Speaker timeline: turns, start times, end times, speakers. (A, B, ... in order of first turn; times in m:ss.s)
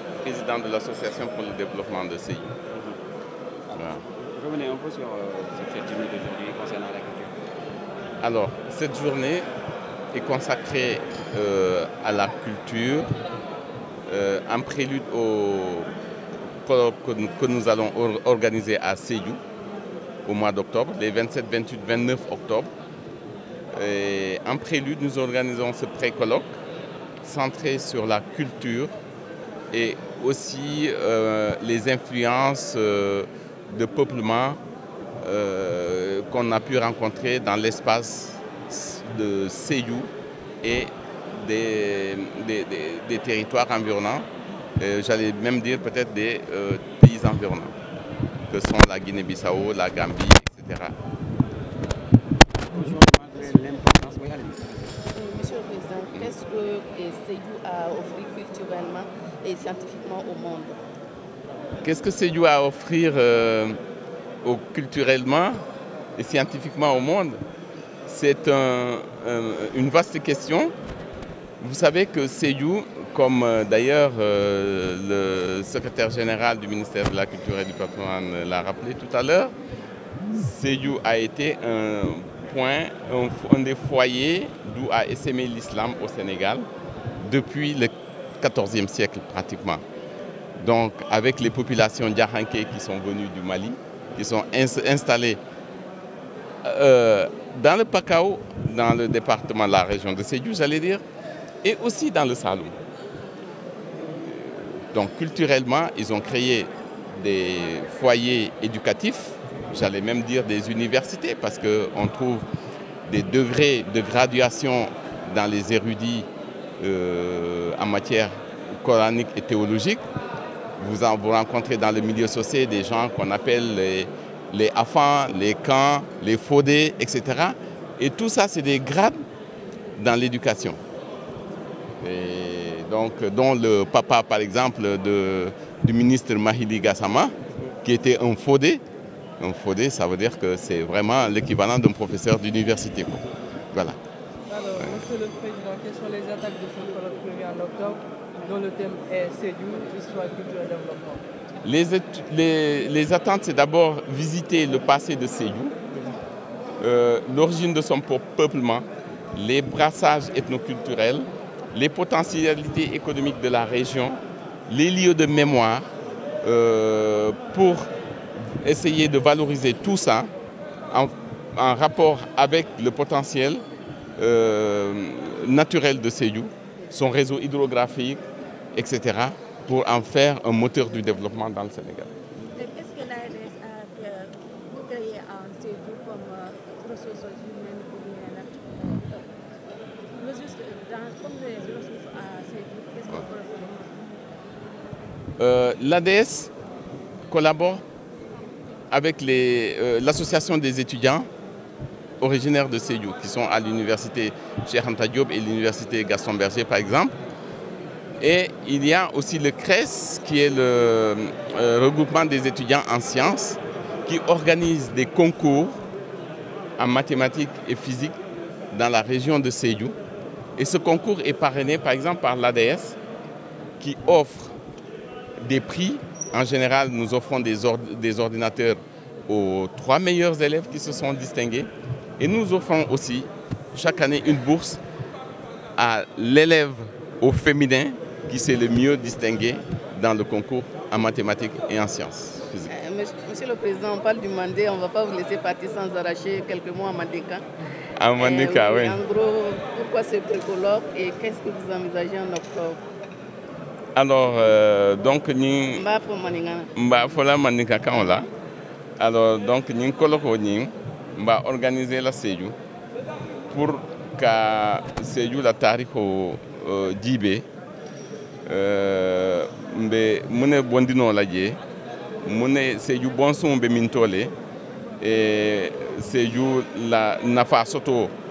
0:00.2-0:02.6 A
0:03.7-0:07.4 B
0:03.8-0:04.0 A
0:08.2-0:09.5 A
0:10.1-0:13.1 A
0:14.1-0:15.9 A
0:16.6-0:19.4 A
0:20.3-0:22.7 A
0:23.7-0:26.6 A
0:27.2-0:28.9 A
0:29.7-0:34.6 A
0:35.2-0:40.1 A
0:40.6-0:47.7 A
0:48.5-0:51.0 A
0:52.7-0:54.6 B
0:55.1-1:00.8 C
1:01.8-1:03.8 A
1:04.4-1:05.6 A
1:06.2-1:07.4 A
1:08.1-1:10.7 A
1:11.6-1:19.5 A
1:20.3-1:26.7 A
1:27.2-1:29.8 A
1:30.6-1:35.4 A
1:36.6-1:41.0 A
1:41.6-1:42.8 A
1:44.2-1:52.5 A
1:53.1-1:56.3 A
1:56.8-2:00.0 A
2:00.8-2:09.2 A
2:10.0-2:10.8 A
2:12.0-2:18.8 A
2:19.4-2:24.0 A
2:24.5-2:31.2 D
2:24.8-2:25.1 A
2:31.6-2:35.8 A
2:36.8-2:45.9 A
2:46.4-2:47.9 A
2:48.5-2:50.3 A
2:50.9-2:53.6 A
2:54.2-2:58.2 A
2:58.7-3:02.1 A
3:02.6-3:09.3 E
3:10.2-3:14.1 E
3:15.4-3:16.5 A
3:17.3-3:17.8 A
3:18.9-3:21.3 A
3:22.2-3:27.2 A
3:28.2-3:35.8 A
3:36.8-3:38.2 A
3:38.7-3:40.0 A
3:40.6-3:43.0 A
3:43.8-3:44.6 A
3:45.4-3:54.8 A
3:55.8-4:02.7 A
4:02.7-4:07.4 C
4:08.0-4:09.0 A
4:08.2-4:12.8 C
4:14.0-4:15.9 A
4:15.7-4:16.7 C
4:16.8-4:18.3 A
4:19.0-4:22.6 A
4:23.5-4:27.5 A
4:28.5-4:31.6 A
4:32.2-4:34.3 A
4:35.0-4:38.1 A